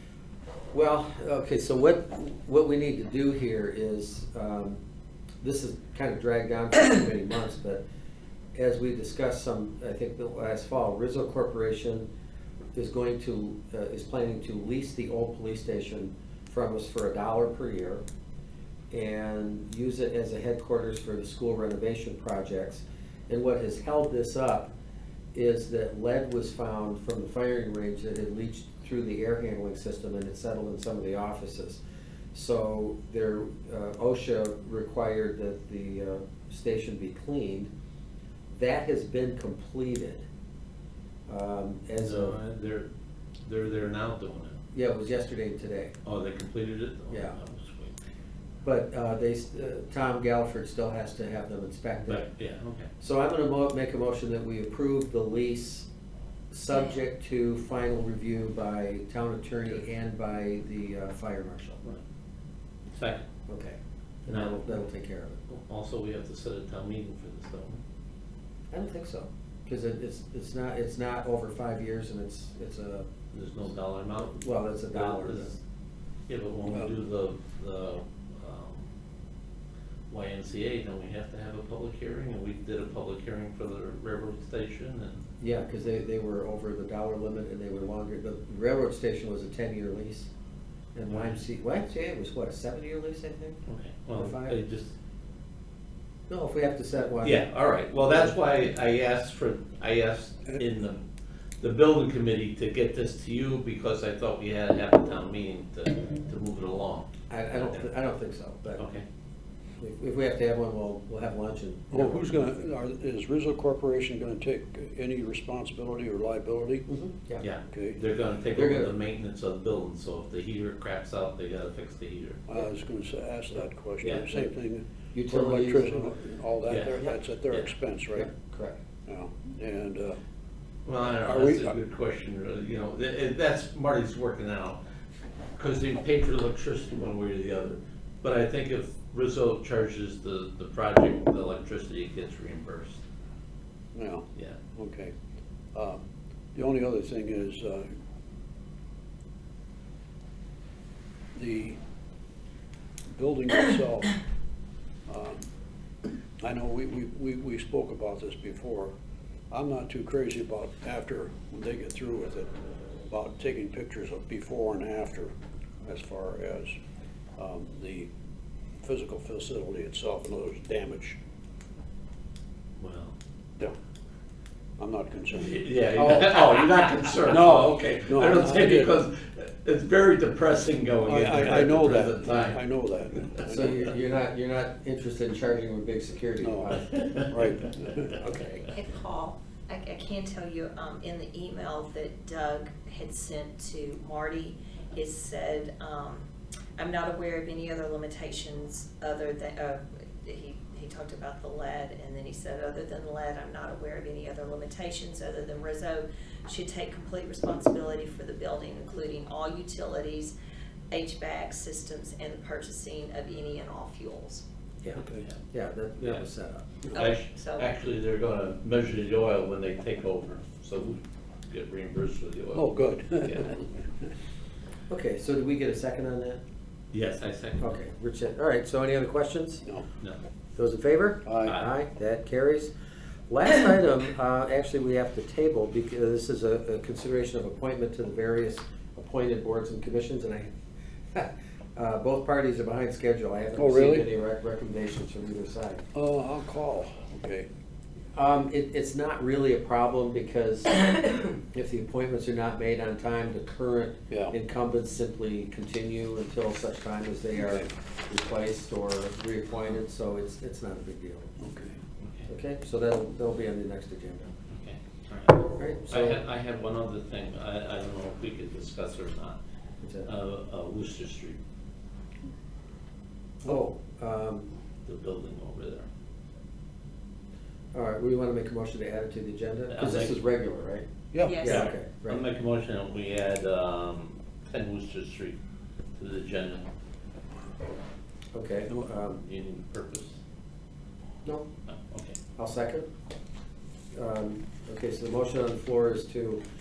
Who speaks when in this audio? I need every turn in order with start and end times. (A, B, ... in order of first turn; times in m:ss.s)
0:00.7-0:04.8 A
0:05.4-0:07.8 A
0:08.5-0:12.1 A
0:12.7-0:18.0 A
0:18.9-0:24.7 A
0:25.3-0:31.8 A
0:32.3-0:37.7 A
0:38.5-0:40.2 A
0:41.3-0:42.4 A
0:42.0-0:42.9 B
0:43.4-0:44.6 B
0:44.7-0:45.9 A
0:46.0-0:48.0 B
0:47.1-0:47.4 A
0:48.6-0:52.3 A
0:52.0-0:52.9 B
0:53.0-0:55.9 A
0:56.5-1:01.8 A
0:56.7-0:57.0 C
1:02.9-1:03.3 B
1:03.5-1:05.4 A
1:04.3-1:04.8 B
1:05.5-1:07.8 B
1:08.7-1:13.1 A
1:13.3-1:15.6 B
1:14.3-1:15.5 A
1:16.3-1:18.9 B
1:16.7-1:16.9 D
1:20.1-1:25.2 B
1:25.4-1:30.3 A
1:30.9-1:33.6 A
1:31.1-1:31.4 B
1:33.6-1:34.9 B
1:34.2-1:34.6 A
1:36.3-1:37.4 A
1:37.2-1:41.0 B
1:38.0-1:38.3 A
1:41.6-1:47.8 B
1:47.3-1:48.8 A
1:48.8-1:49.0 B
1:49.8-1:52.6 A
1:51.9-1:56.8 D
1:56.9-1:57.4 A
1:57.4-2:02.4 B
1:57.7-1:58.0 D
1:58.5-1:58.9 A
2:02.5-2:08.3 D
2:04.0-2:04.3 B
2:04.0-2:04.5 A
2:05.1-2:06.1 A
2:06.7-2:07.0 B
2:08.1-2:08.8 A
2:09.0-2:10.2 D
2:10.8-2:14.8 B
2:11.2-2:11.8 D
2:15.6-2:23.0 B
2:23.9-2:25.1 D
2:25.7-2:26.0 D
2:26.5-2:27.9 D
2:31.3-2:31.8 D
2:33.1-2:34.2 D
2:35.1-2:35.5 D
2:36.4-2:38.9 D
2:39.5-2:42.5 D
2:43.1-2:46.8 D
2:47.4-2:48.1 D
2:48.8-2:51.2 D
2:52.8-2:53.2 B
2:54.8-2:56.4 D
2:55.3-3:02.6 B
2:57.2-2:59.0 D
3:01.1-3:03.9 D
3:03.5-3:06.9 A
3:06.4-3:08.2 D
3:06.9-3:07.5 B
3:08.2-3:08.7 A
3:08.7-3:16.3 C
3:16.8-3:30.3 C
3:30.9-3:34.4 C
3:34.9-3:35.3 D
3:35.5-3:36.9 A
3:36.9-3:37.7 C
3:36.9-3:43.6 B
3:42.5-3:43.7 D
3:44.9-3:46.4 A
3:46.9-3:47.7 B
3:47.6-3:49.6 A
3:50.6-3:52.7 A
3:51.2-3:51.6 D
3:53.3-4:00.5 A
4:01.1-4:05.8 A
4:03.6-4:04.0 D
4:05.9-4:07.5 D
4:08.1-4:21.3 A
4:14.1-4:14.3 D
4:17.4-4:17.7 D
4:21.4-4:21.8 D
4:22.0-4:22.3 B
4:22.3-4:24.3 A
4:24.5-4:29.4 B
4:25.5-4:26.2 A
4:29.8-4:30.1 A
4:30.0-4:31.4 B
4:33.4-4:34.5 A
4:34.8-4:35.9 B
4:37.7-4:40.8 A
4:39.7-4:40.1 B
4:41.1-4:41.5 D
4:41.2-4:41.7 C
4:41.4-4:42.2 A
4:41.4-4:45.4 B
4:46.0-4:46.7 B
4:48.3-4:49.2 A
4:49.1-4:50.2 B
4:51.7-4:52.2 B
4:52.4-4:52.9 A
4:53.9-4:56.4 A